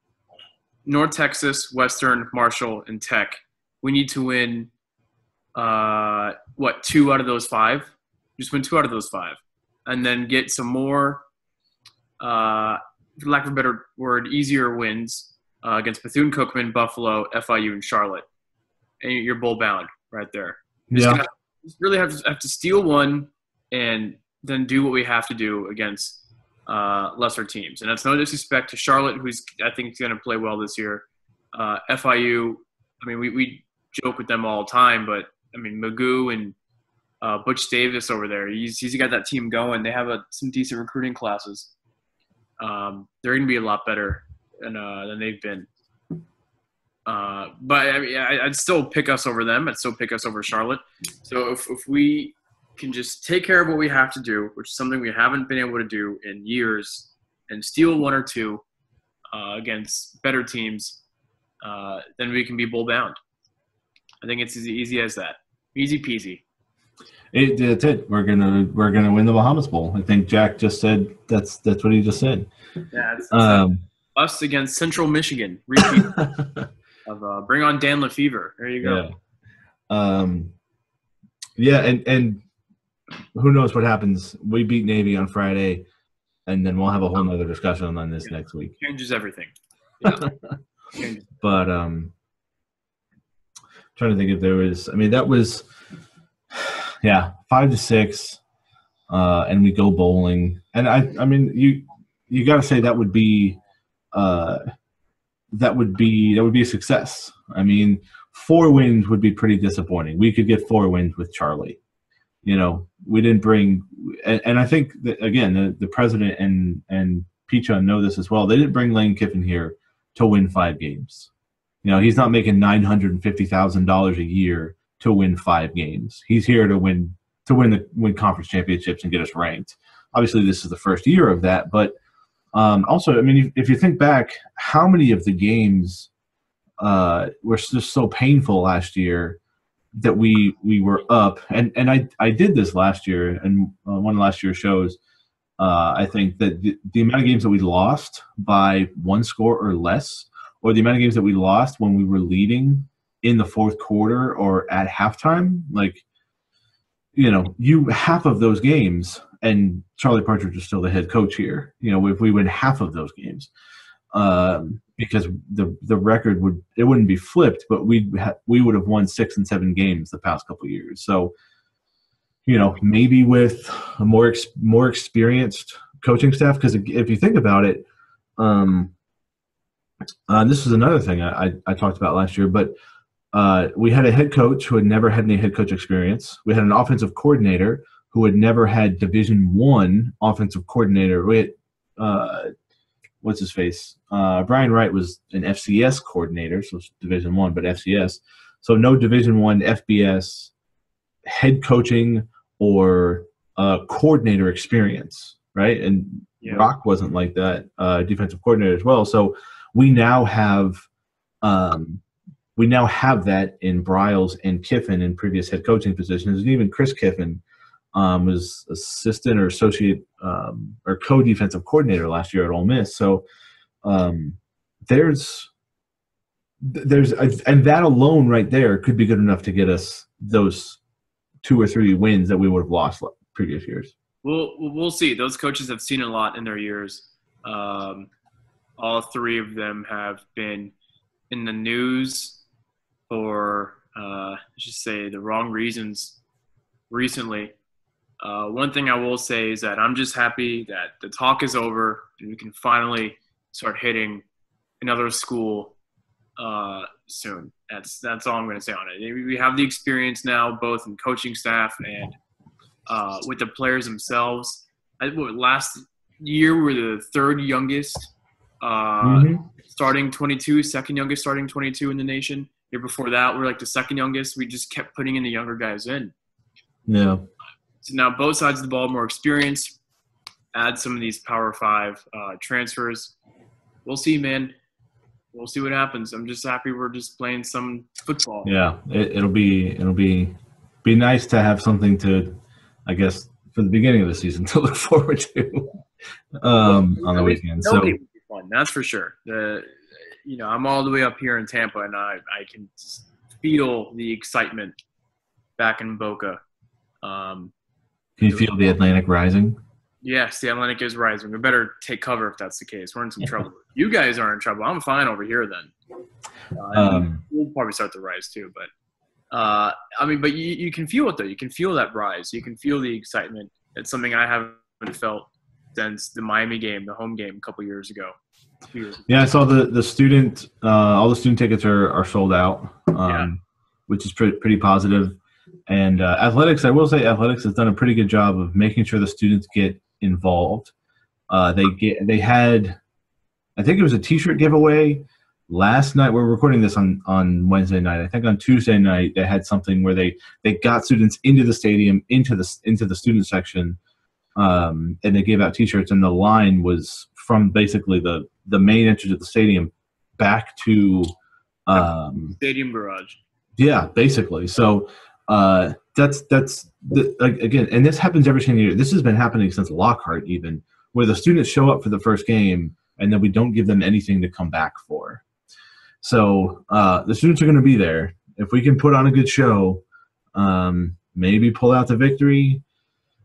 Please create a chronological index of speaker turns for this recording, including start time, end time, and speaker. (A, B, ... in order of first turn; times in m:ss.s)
0:00.8-0:04.7 A
0:05.5-0:11.2 A
0:12.2-0:18.2 A
0:19.0-0:36.6 A
0:20.9-0:21.2 B
0:37.2-0:41.7 A
0:42.6-0:45.7 A
0:47.0-0:58.6 A
0:59.3-1:01.0 A
1:01.6-1:03.2 A
1:04.2-1:06.4 A
1:07.3-1:12.5 B
1:12.9-1:16.2 A
1:13.3-1:13.8 B
1:15.8-1:16.6 B
1:17.1-1:19.0 A
1:18.8-1:19.1 B
1:19.9-1:20.5 B
1:21.6-1:22.4 B
1:23.3-1:25.8 B
1:26.5-1:28.7 B
1:28.2-1:30.3 A
1:30.0-1:30.5 B
1:31.0-1:31.3 A
1:31.4-1:32.1 B
1:34.0-1:35.7 B
1:36.5-1:38.4 B
1:39.1-1:43.6 B
1:44.1-1:44.6 B
1:45.5-1:51.8 B
1:52.4-2:01.3 B
2:01.8-2:11.9 B
2:12.5-2:16.1 B
2:16.8-2:19.4 B
2:20.0-2:25.0 B
2:25.6-2:36.0 B
2:37.1-2:43.5 B
2:44.1-2:51.3 B
2:52.4-2:57.8 B
2:58.4-2:58.9 B
3:00.3-3:02.7 B
3:03.3-3:12.5 B
3:13.2-3:20.5 B
3:21.2-3:30.9 B
3:26.4-3:26.7 A
3:31.4-3:32.0 B
3:32.6-3:37.4 B
3:37.9-3:43.2 B
3:43.8-3:45.5 B
3:46.6-3:50.8 B
3:51.4-3:53.9 B
3:54.2-3:58.1 A
3:58.8-4:00.7 A
4:01.3-4:02.4 A
4:03.1-4:06.2 A
4:06.9-4:07.5 A
4:08.2-4:14.2 A
4:14.8-4:15.7 A
4:16.4-4:22.2 A
4:22.9-4:36.1 A
4:29.0-4:29.4 B
4:36.9-4:37.2 B
4:37.8-4:39.8 A
4:40.5-4:43.1 A
4:43.8-4:44.5 A
4:45.3-4:48.5 A
4:48.4-4:55.8 B
4:56.4-4:58.0 B
4:56.6-5:04.8 A
5:05.6-5:06.4 A
5:07.0-5:07.5 A
5:08.2-5:09.6 B
5:10.0-5:15.7 A
5:16.5-5:18.7 A
5:16.7-5:17.2 B
5:19.3-5:28.1 A
5:28.7-5:29.1 A
5:29.1-5:40.7 B
5:41.3-5:42.8 B
5:43.6-5:53.8 B
5:54.4-6:01.1 B
6:01.7-6:02.4 B
6:02.4-6:03.2 A
6:03.6-6:15.2 B
6:16.0-6:19.8 B
6:20.3-6:22.6 B